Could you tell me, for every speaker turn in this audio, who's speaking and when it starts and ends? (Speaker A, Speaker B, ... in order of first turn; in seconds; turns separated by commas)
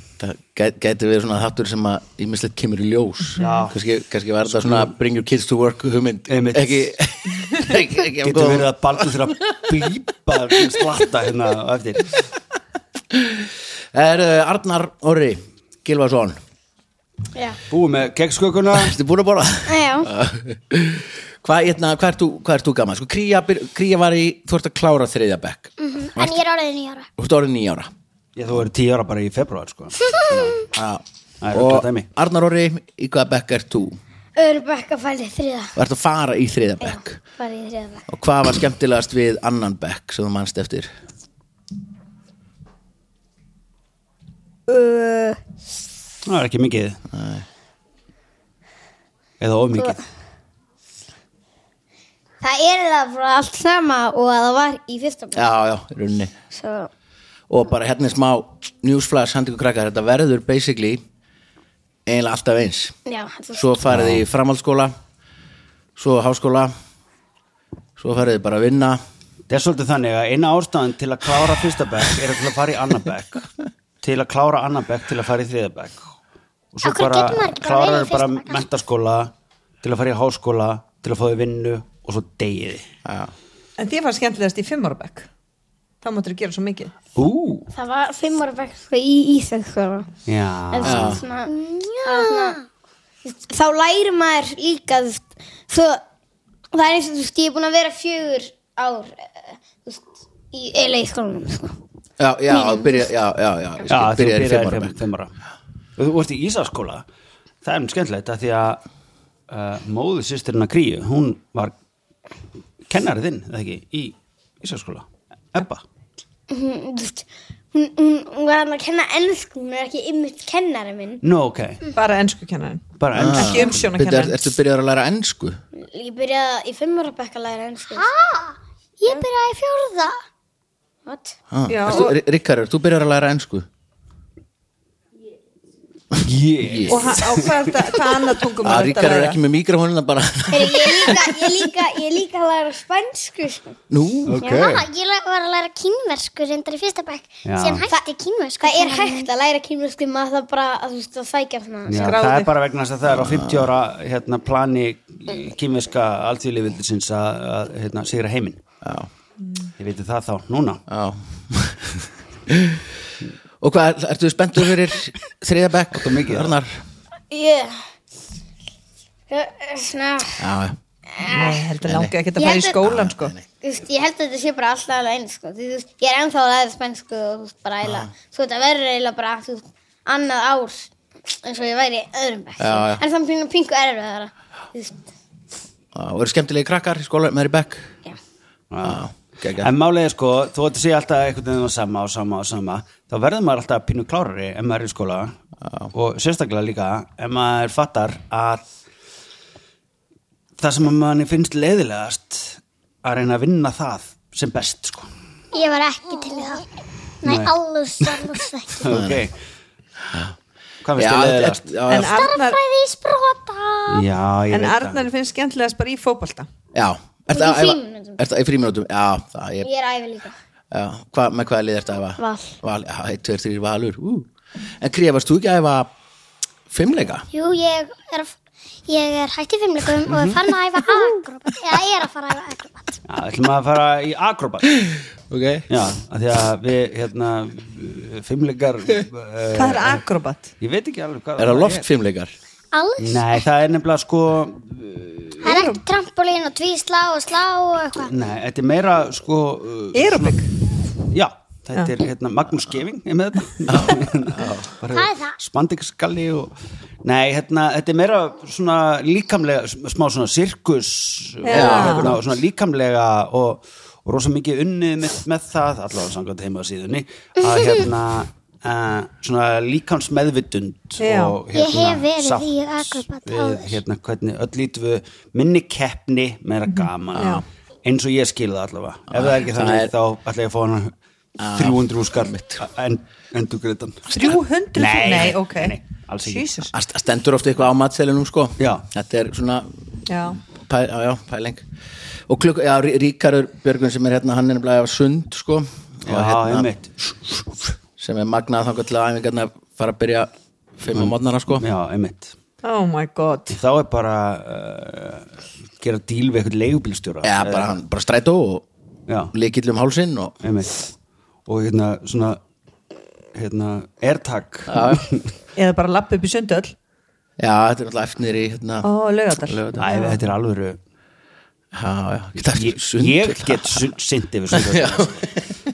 Speaker A: 0.2-9.8, Speaker B: 3.4-3.6, Speaker C: 3.4-3.8, Speaker C: 4.5-4.9, Speaker C: 6.3-7.0, Speaker C: 8.2-12.2, Speaker A: 13.1-16.4, Speaker C: 17.7-19.0, Speaker A: 18.7-26.4, Speaker D: 19.7-20.1, Speaker E: 25.8-27.1, Speaker A: 27.2-27.9, Speaker C: 28.4-30.7, Speaker A: 30.7-34.0, Speaker C: 31.4-32.1, Speaker D: 34.4-35.8, Speaker A: 35.8-37.2, Speaker D: 36.8-38.1, Speaker A: 38.1-40.9, Speaker D: 44.7-45.4, Speaker C: 46.2-47.0, Speaker A: 47.1-47.5, Speaker C: 49.4-50.0, Speaker D: 49.7-50.0, Speaker D: 52.4-55.5, Speaker A: 55.3-56.3, Speaker D: 56.5-56.9, Speaker A: 57.5-61.0, Speaker A: 62.1-62.9, Speaker D: 63.1-63.8, Speaker A: 63.5-65.0, Speaker C: 63.9-64.2, Speaker A: 66.0-66.7, Speaker A: 68.0-69.0, Speaker C: 69.5-73.5, Speaker C: 74.0-76.1, Speaker C: 76.7-82.9, Speaker E: 76.8-78.7, Speaker A: 83.0-83.3, Speaker B: 83.8-85.3, Speaker B: 86.0-86.9, Speaker C: 87.2-87.7, Speaker D: 87.7-90.1, Speaker C: 90.3-91.2, Speaker D: 90.7-92.6, Speaker A: 90.8-91.2, Speaker E: 91.4-92.7, Speaker D: 93.2-96.0, Speaker D: 96.7-101.8, Speaker A: 102.2-105.0, Speaker D: 102.5-103.0, Speaker C: 103.9-105.3, Speaker C: 106.0-107.0, Speaker C: 107.6-108.8, Speaker C: 109.5-111.8, Speaker C: 112.9-115.8, Speaker D: 116.5-121.2, Speaker C: 121.2-121.8, Speaker B: 122.0-124.4, Speaker C: 123.0-123.7, Speaker A: 123.1-125.6, Speaker D: 125.8-128.1, Speaker E: 127.9-130.2, Speaker D: 131.1-131.3, Speaker A: 131.5-133.7, Speaker B: 131.7-132.2, Speaker C: 136.2-137.6, Speaker A: 136.6-137.3, Speaker B: 136.9-139.4, Speaker A: 138.6-141.4, Speaker D: 140.5-143.8, Speaker A: 143.9-144.4, Speaker C: 144.3-144.8, Speaker E: 144.4-149.3, Speaker C: 147.4-147.9, Speaker D: 148.6-152.2, Speaker C: 151.8-158.6, Speaker B: 152.0-152.5, Speaker A: 153.1-153.7, Speaker A: 158.8-159.1, Speaker C: 159.8-160.8, Speaker A: 160.9-162.9, Speaker A: 163.6-166.8, Speaker C: 165.9-166.6, Speaker D: 167.3-167.8, Speaker D: 169.3-170.5, Speaker A: 170.4-170.8, Speaker D: 171.2-171.6, Speaker B: 171.3-173.3, Speaker A: 171.8-172.2, Speaker D: 172.3-172.8, Speaker A: 172.8-173.5, Speaker D: 173.6-185.0, Speaker A: 177.8-178.1, Speaker A: 182.6-183.0, Speaker A: 185.9-188.0, Speaker C: 188.7-195.4, Speaker A: 188.8-189.7, Speaker A: 195.6-195.9, Speaker C: 195.9-198.7, Speaker C: 200.6-205.1, Speaker E: 205.5-206.7, Speaker E: 207.2-209.0, Speaker C: 207.2-208.2, Speaker C: 208.8-209.3, Speaker A: 208.9-209.2, Speaker C: 210.8-211.7, Speaker A: 211.0-212.3, Speaker B: 211.9-212.6, Speaker E: 212.0-214.1, Speaker C: 213.9-215.1, Speaker B: 214.5-216.5, Speaker A: 216.7-219.7, Speaker D: 217.3-218.2, Speaker D: 219.6-220.3, Speaker A: 220.7-224.3, Speaker D: 222.2-222.5, Speaker A: 224.8-225.9, Speaker A: 226.7-227.3, Speaker E: 227.3-233.0, Speaker C: 230.1-230.4, Speaker C: 233.1-234.8, Speaker A: 234.9-235.7, Speaker C: 235.7-240.0, Speaker B: 239.5-240.5, Speaker C: 240.6-241.9, Speaker A: 241.4-242.3, Speaker E: 242.7-243.4, Speaker C: 243.0-245.4, Speaker E: 245.4-248.1, Speaker B: 245.4-245.8, Speaker C: 248.1-250.4, Speaker B: 249.9-250.5, Speaker C: 251.0-256.5, Speaker A: 253.7-254.7, Speaker E: 254.9-255.4, Speaker C: 257.0-280.9, Speaker B: 261.4-262.2, Speaker A: 261.5-262.2, Speaker E: 267.5-267.8, Speaker B: 271.0-271.4, Speaker E: 271.5-273.8, Speaker B: 276.7-277.4, Speaker A: 277.2-277.4, Speaker A: 279.1-279.9, Speaker A: 281.4-282.6, Speaker C: 281.5-286.6, Speaker B: 284.1-286.7, Speaker A: 286.7-289.7, Speaker C: 288.6-288.9, Speaker B: 290.1-290.4, Speaker A: 290.4-291.6, Speaker A: 292.3-301.6, Speaker C: 296.1-296.9, Speaker C: 300.9-302.4, Speaker B: 302.6-303.6, Speaker C: 303.5-307.7, Speaker A: 307.2-308.6, Speaker C: 309.1-309.3, Speaker A: 309.3-310.4, Speaker C: 310.4-310.9, Speaker C: 311.5-312.4, Speaker C: 313.4-315.3, Speaker A: 314.7-315.0, Speaker B: 315.6-316.8, Speaker A: 317.4-318.9, Speaker B: 318.8-320.2, Speaker A: 319.4-319.9, Speaker C: 319.8-320.8, Speaker A: 321.7-323.9, Speaker C: 322.5-325.2, Speaker A: 324.5-325.5